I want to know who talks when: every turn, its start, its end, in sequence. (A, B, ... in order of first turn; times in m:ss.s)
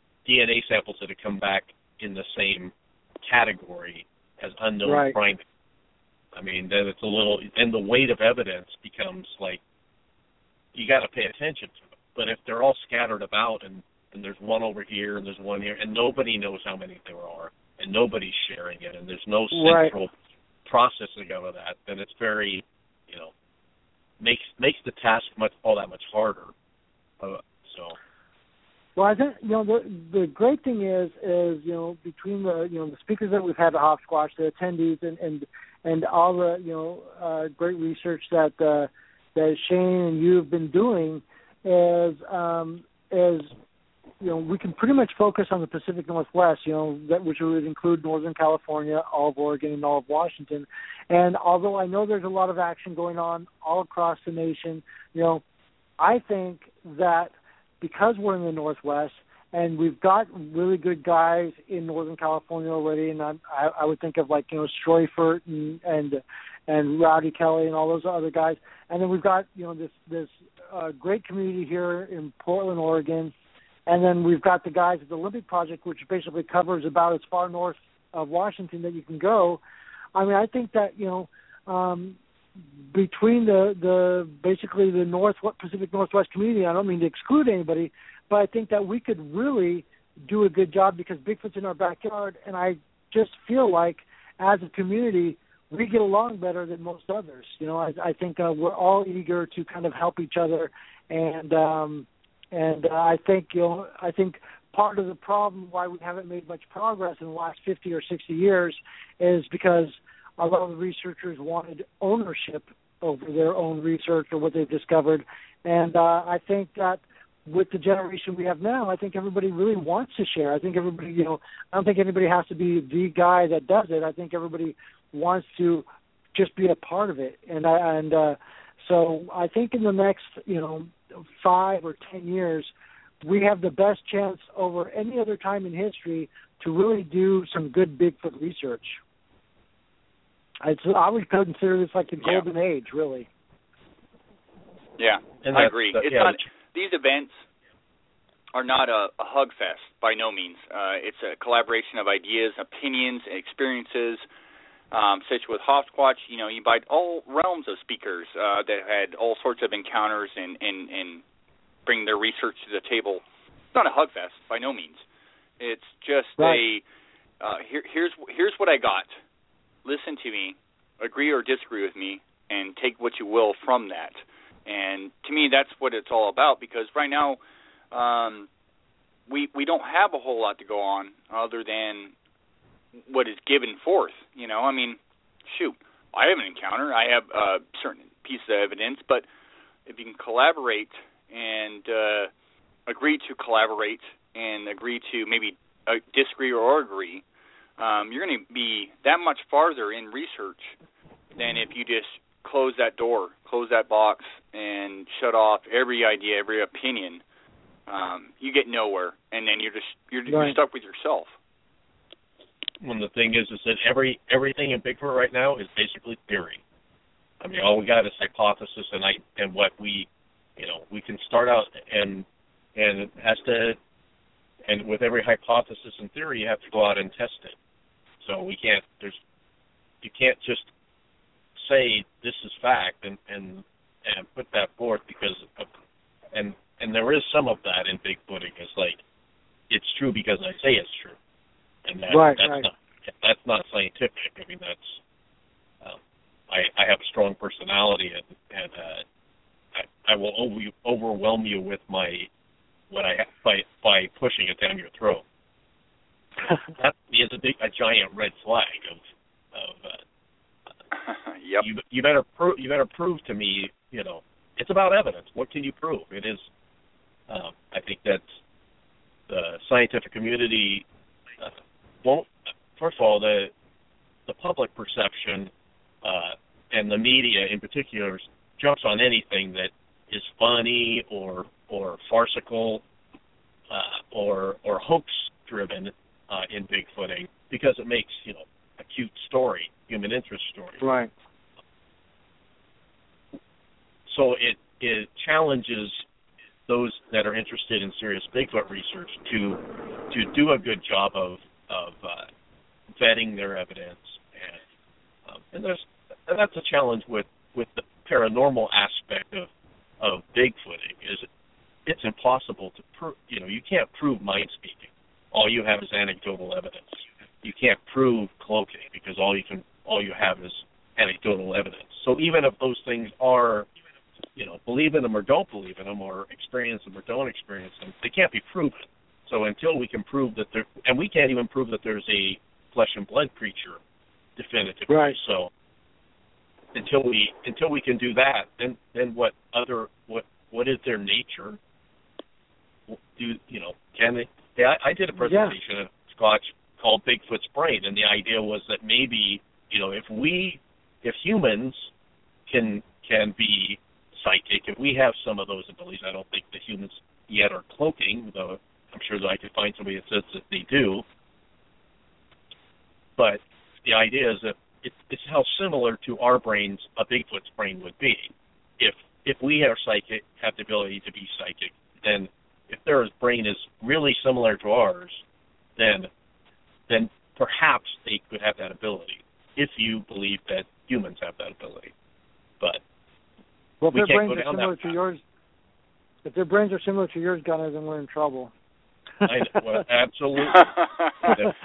0:00.2-0:05.4 A
0:04.8-0:05.2 B
0:06.3-0:09.6 A
0:10.7-0:20.1 A
0:19.5-0:20.0 B
0:20.6-0:23.3 A
0:24.2-0:26.5 A
0:27.2-0:28.0 A
0:29.0-0:43.5 B
0:44.2-0:55.4 B
0:56.0-1:13.3 B
1:13.9-1:19.6 B
1:20.1-1:22.2 B
1:22.9-2:12.7 B
2:13.2-2:19.0 B
2:20.6-2:23.3 B
2:25.0-2:27.4 C
2:25.4-2:26.4 A
2:28.5-2:34.2 C
2:34.9-2:41.2 C
2:41.9-2:43.2 C
2:43.7-2:45.0 C
2:45.6-2:46.8 C
2:47.4-2:49.1 C
2:49.8-2:57.4 C
2:57.9-2:58.5 C
2:59.3-3:02.1 C
3:03.1-3:09.2 C
3:09.9-3:12.3 C
3:12.9-3:17.2 C
3:17.8-3:20.7 C
3:21.4-3:27.2 C
3:27.9-3:31.3 C
3:30.3-3:30.6 B
3:32.8-3:36.6 A
3:37.4-3:43.8 A
3:44.7-3:47.6 A
3:48.2-3:49.2 A
3:50.0-3:50.7 A
3:51.6-3:55.7 A
3:56.3-3:59.0 A
3:59.7-4:01.2 A
4:01.8-4:05.0 A
4:02.1-4:02.7 B
4:05.8-4:09.0 A
4:09.7-4:12.3 A
4:12.9-4:15.2 A
4:16.7-4:20.0 A
4:21.0-4:21.6 C
4:21.6-4:26.5 A
4:27.3-4:28.3 A
4:29.3-4:30.8 A
4:31.4-4:33.5 A
4:34.3-4:35.5 A
4:36.0-4:42.8 A
4:43.7-4:50.8 A
4:50.8-4:51.1 B
4:54.1-4:56.0 A
4:56.7-5:02.3 A
5:02.9-5:04.6 A
5:05.3-5:11.3 A
5:11.9-5:23.7 A
5:24.3-5:33.8 A
5:34.4-5:35.5 A
5:34.9-5:35.2 B
5:36.7-5:41.6 A
5:42.9-5:51.9 A
5:45.2-5:45.6 B
5:52.5-6:01.0 A
6:03.2-6:15.2 A
6:15.8-6:16.1 A
6:16.9-6:21.9 A
6:23.8-6:25.2 B
6:23.9-6:25.0 A
6:26.2-6:28.5 B
6:29.2-6:31.6 A
6:30.7-6:31.1 C